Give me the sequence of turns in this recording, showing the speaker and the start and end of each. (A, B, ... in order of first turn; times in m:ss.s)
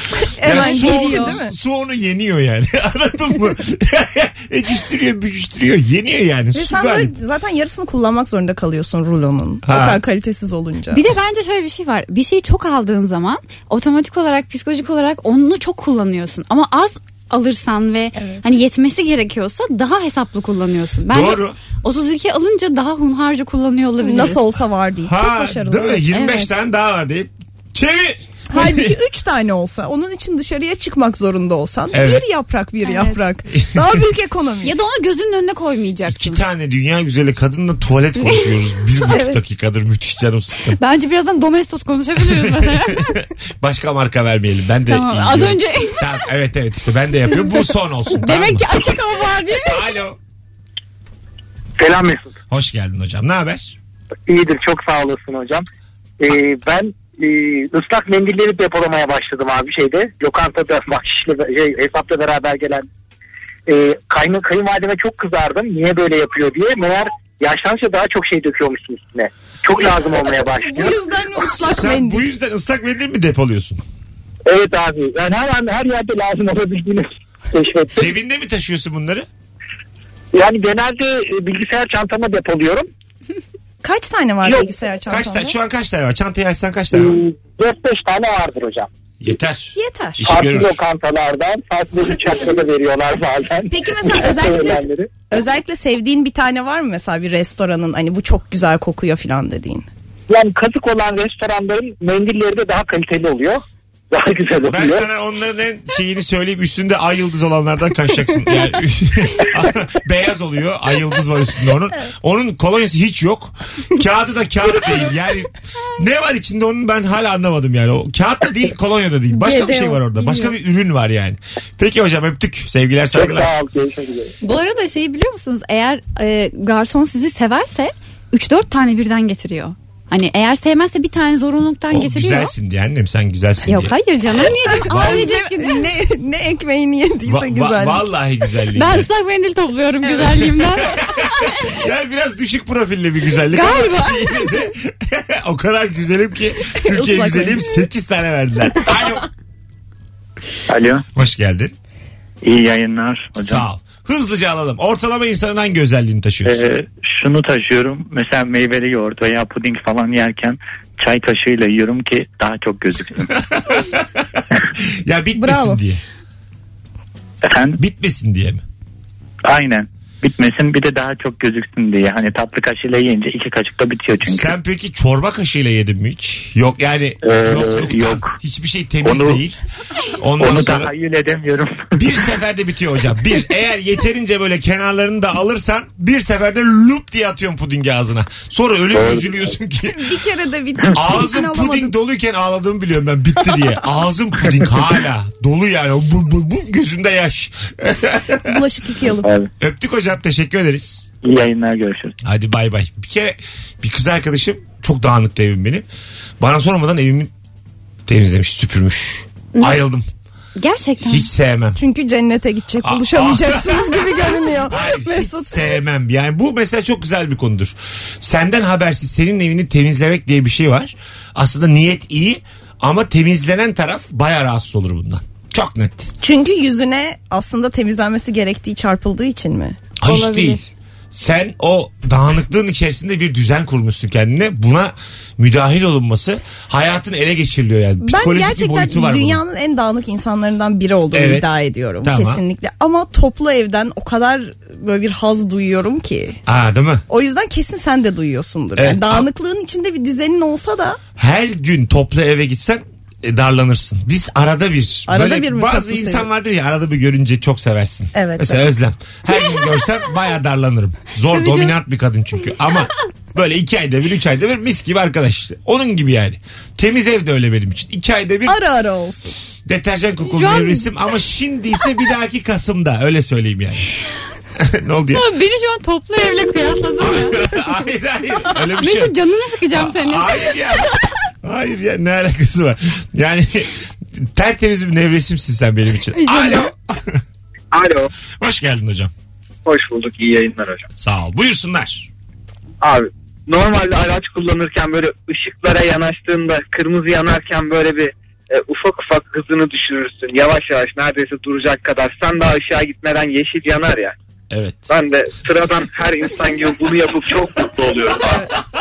0:00.4-0:01.5 A
0:00.4-0:07.1 B
0:00.5-0:01.3 C
0:06.5-0:11.0 A
0:09.6-0:10.0 B
0:10.9-0:24.4 C
0:18.2-0:18.4 A
0:21.1-0:21.6 B
0:24.0-0:26.0 A
0:25.0-0:28.9 B
0:26.1-0:26.5 C
0:28.5-0:34.7 A
0:31.9-0:32.2 B
0:32.8-0:33.2 C
0:33.6-0:33.9 B
0:34.6-0:36.4 C
0:36.1-0:40.8 B
0:39.1-0:39.4 A
0:40.8-0:43.1 C
0:42.2-0:48.9 B
0:44.9-0:46.1 C
0:48.1-0:49.8 C
0:49.6-0:50.2 B
0:51.8-0:52.3 D
0:52.5-0:53.8 B
0:54.3-0:55.6 D
0:56.2-1:02.9 D
1:03.7-1:11.0 D
1:10.6-1:12.2 A
1:11.5-1:13.8 B
1:14.4-1:18.0 D
1:17.9-1:19.2 B
1:20.3-1:22.9 D
1:23.8-1:25.5 A
1:25.1-1:27.2 B
1:26.9-1:28.9 D
1:29.2-1:30.8 B
1:29.8-1:30.3 A
1:30.2-1:35.1 D
1:33.7-1:39.9 A
1:40.3-1:45.0 D
1:44.7-2:03.5 B
1:59.3-2:00.5 A
2:03.1-2:04.3 D
2:04.4-2:12.5 C
2:11.9-2:15.3 B
2:13.6-2:15.9 C
2:14.8-2:18.1 A
2:17.2-2:19.1 B
2:18.7-2:21.6 C
2:20.8-2:29.3 B
2:23.5-2:24.6 C
2:26.7-2:27.7 A
2:30.7-2:31.0 E
2:31.1-2:31.7 B
2:32.4-2:33.6 E
2:33.4-2:36.6 B
2:36.4-2:43.3 E
2:43.3-2:46.0 B
2:45.3-2:45.8 A
2:47.4-2:47.8 E
2:47.8-2:48.6 B
2:49.4-2:54.5 E
2:54.2-2:59.6 B
2:57.3-2:57.6 D
2:57.7-2:58.3 E
2:59.0-2:59.4 E
3:00.2-3:00.9 B
3:00.4-3:01.9 E
3:01.9-3:10.1 B
3:08.9-3:09.2 D
3:09.8-3:11.9 A
3:10.9-3:18.6 B
3:18.4-3:19.3 A
3:19.6-3:21.1 B
3:21.2-3:22.1 E
3:22.2-3:25.8 B
3:26.4-3:27.3 B
3:28.0-3:30.1 B
3:30.6-3:31.3 C
3:31.0-3:31.8 B
3:31.8-3:35.6 A
3:32.8-3:46.1 B
3:46.2-3:49.8 A
3:50.0-3:50.6 B
3:50.0-3:50.6 C
3:51.1-3:59.4 B
3:58.0-4:06.4 A
4:01.1-4:01.5 B
4:02.0-4:02.4 B
4:06.4-4:07.0 B
4:07.1-4:11.0 A
4:08.8-4:09.3 B
4:11.2-4:28.6 B
4:15.1-4:16.3 A
4:18.1-4:18.6 A
4:21.3-4:21.7 C
4:28.5-4:29.3 A
4:29.6-4:33.9 B
4:30.2-4:30.8 C
4:34.6-4:35.2 B
4:35.1-4:37.4 C
4:37.0-4:39.2 B
4:38.7-4:40.4 C
4:39.7-4:47.2 B
4:46.1-4:46.7 C
4:47.7-4:48.1 F
4:48.4-4:49.1 B
4:49.6-4:50.8 F
4:51.0-4:52.1 B
4:52.8-5:04.1 F
5:04.5-5:04.9 B
5:04.9-5:08.4 F